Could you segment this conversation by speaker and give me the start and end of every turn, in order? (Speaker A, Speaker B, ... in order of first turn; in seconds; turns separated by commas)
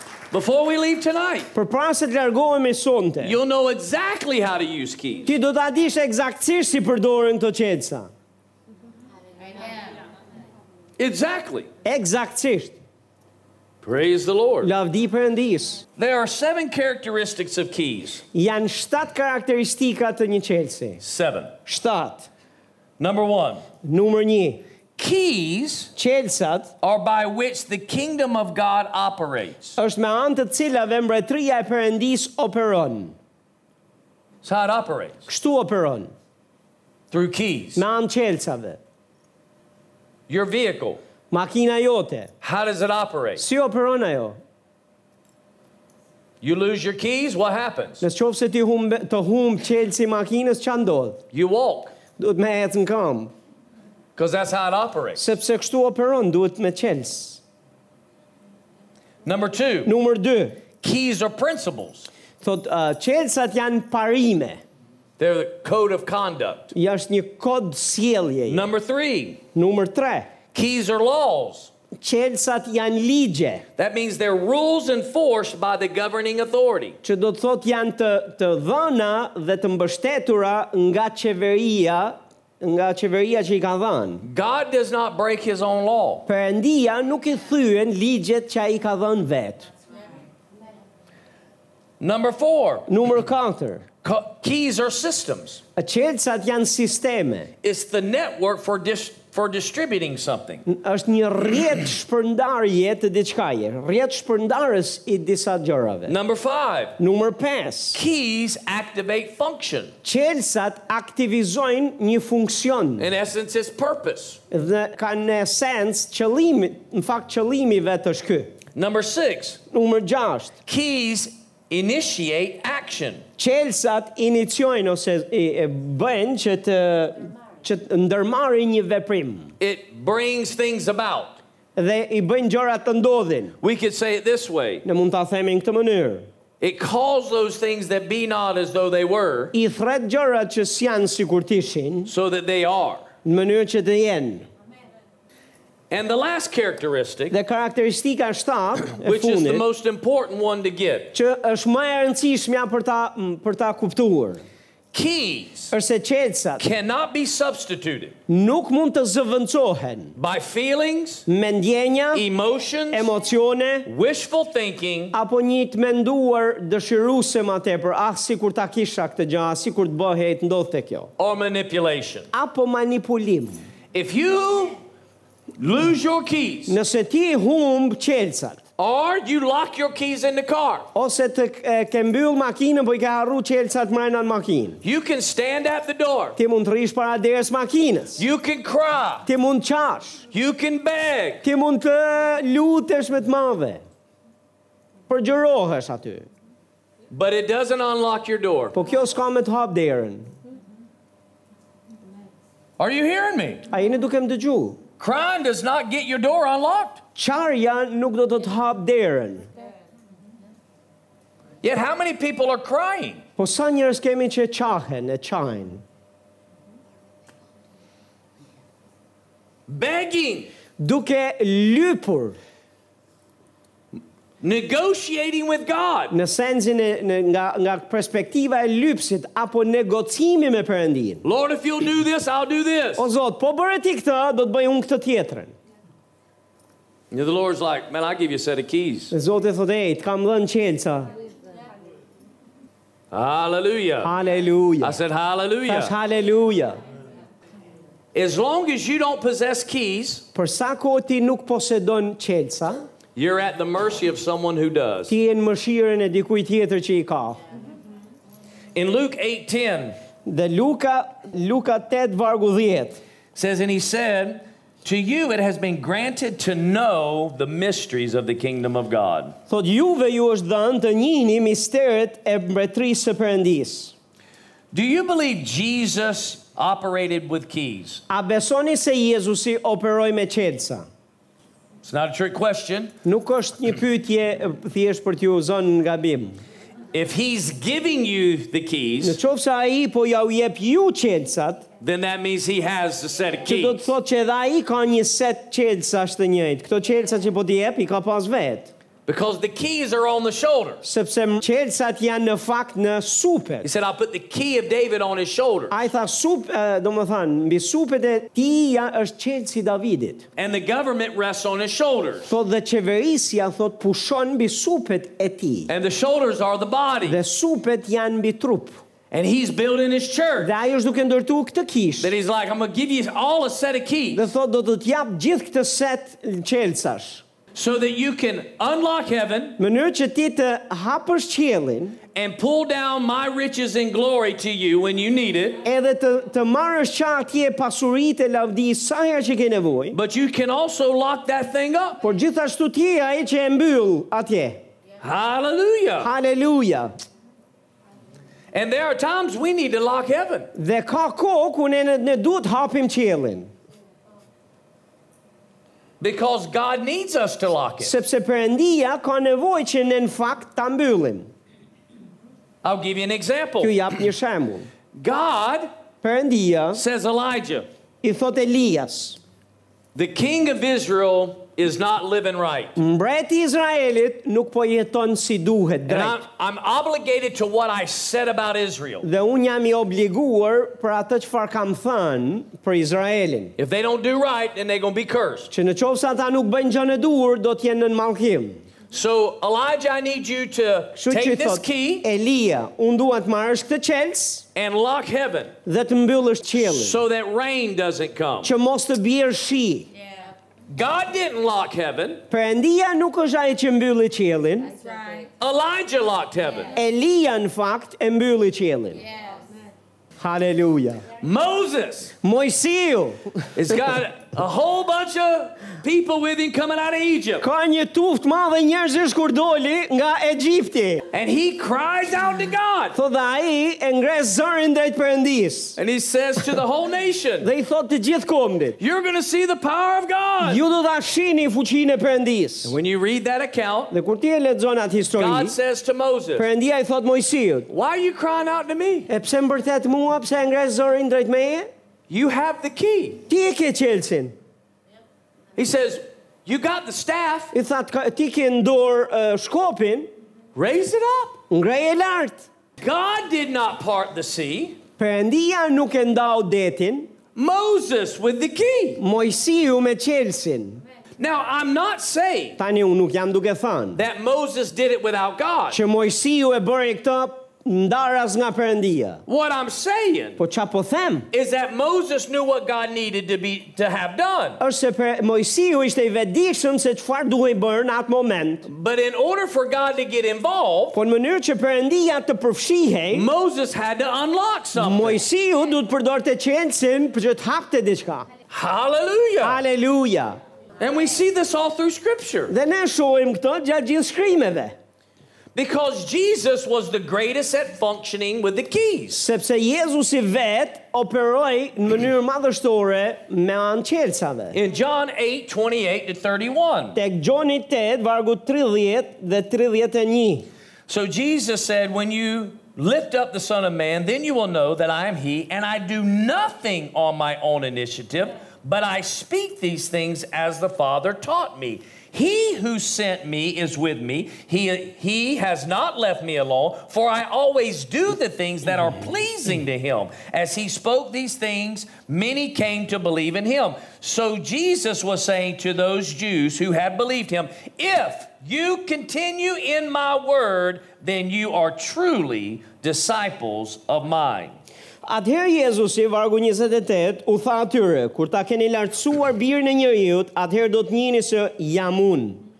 Speaker A: 0.3-1.5, Speaker B: 1.5-3.4, Speaker A: 3.2-5.3, Speaker B: 5.2-8.1, Speaker C: 9.4-9.9, Speaker A: 11.0-11.7, Speaker B: 11.8-12.8, Speaker A: 13.8-14.7, Speaker B: 14.6-15.8, Speaker A: 16.0-18.2, Speaker B: 18.3-21.0, Speaker A: 21.0-21.5, Speaker B: 21.6-22.3, Speaker A: 23.0-23.6, Speaker B: 23.8-24.6, Speaker A: 25.0-25.9, Speaker B: 25.9-26.7, Speaker A: 26.8-29.8, Speaker B: 29.8-33.1, Speaker A: 34.4-35.2, Speaker B: 35.3-36.1, Speaker A: 37.1-37.8, Speaker B: 37.8-38.8, Speaker A: 40.3-41.0, Speaker B: 41.3-42.3, Speaker A: 42.4-43.4, Speaker B: 43.4-44.4, Speaker A: 46.4-48.0, Speaker B: 48.0-51.2, Speaker A: 51.3-51.9, Speaker B: 52.2-53.3, Speaker A: 54.1-55.2, Speaker B: 55.1-57.4, Speaker A: 59.2-59.9, Speaker B: 59.8-60.6, Speaker A: 60.8-62.1, Speaker B: 62.4-64.6, Speaker A: 65.2-66.7, Speaker B: 66.7-68.7, Speaker A: 68.5-69.4, Speaker B: 69.5-70.3, Speaker A: 70.5-71.7, Speaker B: 72.0-73.6, Speaker A: 73.8-77.0, Speaker B: 77.0-84.2, Speaker A: 84.2-86.3, Speaker B: 86.2-89.7, Speaker A: 92.0-92.9, Speaker B: 92.9-93.9, Speaker A: 94.0-95.6, Speaker B: 95.8-97.5, Speaker A: 97.6-100.6, Speaker B: 100.7-106.1, Speaker A: 106.1-107.0, Speaker B: 107.0-108.0, Speaker A: 107.9-109.9, Speaker B: 110.0-113.1, Speaker A: 113.0-114.4, Speaker B: 114.5-118.6, Speaker A: 118.7-119.6, Speaker B: 119.7-120.5, Speaker A: 120.7-123.2, Speaker B: 123.4-129.5, Speaker A: 129.6-131.4, Speaker B: 131.8-133.6, Speaker A: 133.6-134.8, Speaker B: 134.8-136.2, Speaker A: 136.6-139.5, Speaker B: 139.5-142.1, Speaker A: 142.1-143.1, Speaker B: 143.2-144.5, Speaker A: 145.9-147.3, Speaker B: 147.3-149.6, Speaker A: 148.9-151.1, Speaker B: 151.1-154.4, Speaker A: 154.9-155.7, Speaker B: 155.7-156.6, Speaker A: 156.6-158.1, Speaker B: 158.3-160.1, Speaker A: 160.2-161.2, Speaker B: 161.3-162.2, Speaker A: 162.1-163.1, Speaker B: 162.9-163.9, Speaker A: 163.8-165.1, Speaker B: 165.1-171.1, Speaker A: 171.2-172.3, Speaker B: 172.3-173.6, Speaker A: 173.9-174.8, Speaker A: 175.6-176.8, Speaker B: 176.7-178.6, Speaker A: 178.8-180.9, Speaker B: 180.9-184.8, Speaker A: 184.8-186.4, Speaker B: 186.4-188.2, Speaker A: 188.2-189.3, Speaker B: 189.2-190.2, Speaker A: 190.3-191.4, Speaker B: 191.4-193.8, Speaker B: 195.1-196.3, Speaker A: 197.1-198.7, Speaker B: 198.7-200.3, Speaker A: 202.8-203.7, Speaker B: 203.7-204.8, Speaker A: 205.0-207.0, Speaker B: 207.2-209.5, Speaker A: 211.6-213.2, Speaker B: 213.4-215.8, Speaker A: 219.7-220.5, Speaker B: 220.8-222.4, Speaker A: 224.4-226.1, Speaker B: 226.1-231.2, Speaker A: 231.2-233.0, Speaker B: 233.0-235.5, Speaker A: 237.1-239.1, Speaker B: 239.1-241.1, Speaker A: 243.1-244.1, Speaker B: 244.0-245.0, Speaker A: 244.8-245.9, Speaker B: 245.7-246.8, Speaker A: 248.1-250.2, Speaker B: 250.3-252.8, Speaker A: 253.1-255.1, Speaker B: 255.1-257.4, Speaker A: 258.7-259.9, Speaker B: 260.2-263.0, Speaker A: 263.3-269.4, Speaker B: 269.5-273.9, Speaker A: 274.7-278.0, Speaker B: 278.1-280.9, Speaker A: 281.8-282.9, Speaker B: 283.0-286.4, Speaker A: 286.9-289.2, Speaker B: 289.0-291.7, Speaker A: 291.8-293.9, Speaker B: 293.4-298.7, Speaker A: 299.1-300.8, Speaker B: 300.8-303.7, Speaker A: 303.6-305.8, Speaker B: 305.7-310.2, Speaker A: 310.4-312.3, Speaker B: 312.2-315.7, Speaker A: 315.7-317.2, Speaker B: 317.0-318.8, Speaker A: 319.1-320.5, Speaker B: 320.4-322.1, Speaker A: 322.0-324.2, Speaker B: 324.1-327.2, Speaker A: 327.5-329.6, Speaker B: 329.6-332.0, Speaker A: 332.1-335.6, Speaker B: 335.6-340.0, Speaker A: 339.9-342.0, Speaker B: 342.0-344.6, Speaker A: 345.0-346.1, Speaker B: 346.0-346.9, Speaker A: 348.5-350.5, Speaker B: 350.5-353.5, Speaker A: 356.0-357.9, Speaker B: 357.8-361.3, Speaker A: 362.6-363.8, Speaker B: 363.6-364.7, Speaker A: 364.9-365.7, Speaker B: 366.0-366.8, Speaker A: 366.7-367.7, Speaker B: 368.0-369.2, Speaker A: 369.9-372.8, Speaker B: 372.8-376.2, Speaker A: 375.9-379.1, Speaker B: 379.0-383.5, Speaker A: 383.6-385.5, Speaker B: 385.5-388.6, Speaker A: 388.9-392.1, Speaker B: 390.9-394.4, Speaker A: 394.5-395.5, Speaker B: 395.6-397.0, Speaker A: 396.6-398.5, Speaker B: 398.4-399.9, Speaker C: 399.9-400.3, Speaker A: 400.7-402.2, Speaker B: 402.3-404.7, Speaker C: 404.7-405.3, Speaker A: 405.4-406.8, Speaker B: 406.7-409.0, Speaker C: 409.0-409.5, Speaker B: 410.2-411.0, Speaker A: 411.2-412.1, Speaker B: 412.2-413.5, Speaker A: 413.6-417.4, Speaker B: 417.4-421.0, Speaker A: 421.1-423.0, Speaker B: 422.9-425.8, Speaker A: 425.8-427.5, Speaker B: 427.4-428.8, Speaker A: 428.8-430.6, Speaker B: 430.4-432.7, Speaker A: 432.6-433.9, Speaker B: 433.9-435.6, Speaker A: 435.1-436.4, Speaker B: 436.4-437.7, Speaker A: 437.7-439.1, Speaker B: 439.1-441.7, Speaker A: 442.1-443.2, Speaker B: 443.3-444.3, Speaker A: 445.6-447.5, Speaker B: 447.5-450.1, Speaker A: 450.5-451.4, Speaker B: 451.5-452.4, Speaker A: 452.8-454.8, Speaker B: 455.0-457.1, Speaker A: 457.3-459.0, Speaker B: 459.0-460.8, Speaker A: 461.2-462.6, Speaker B: 462.6-464.0, Speaker A: 463.9-465.8, Speaker B: 465.7-469.2, Speaker A: 469.3-470.4, Speaker B: 470.4-471.3, Speaker A: 471.3-474.6, Speaker B: 474.6-478.7, Speaker A: 478.7-481.0, Speaker B: 480.9-483.3, Speaker A: 483.1-485.2, Speaker B: 484.8-488.3, Speaker A: 488.5-489.6, Speaker B: 489.4-490.4, Speaker A: 490.8-492.5, Speaker B: 492.5-494.8, Speaker A: 495.5-499.2, Speaker B: 499.1-504.6, Speaker A: 504.5-507.0, Speaker B: 506.9-510.5, Speaker A: 510.9-544.6, Speaker B: 545.0-552.4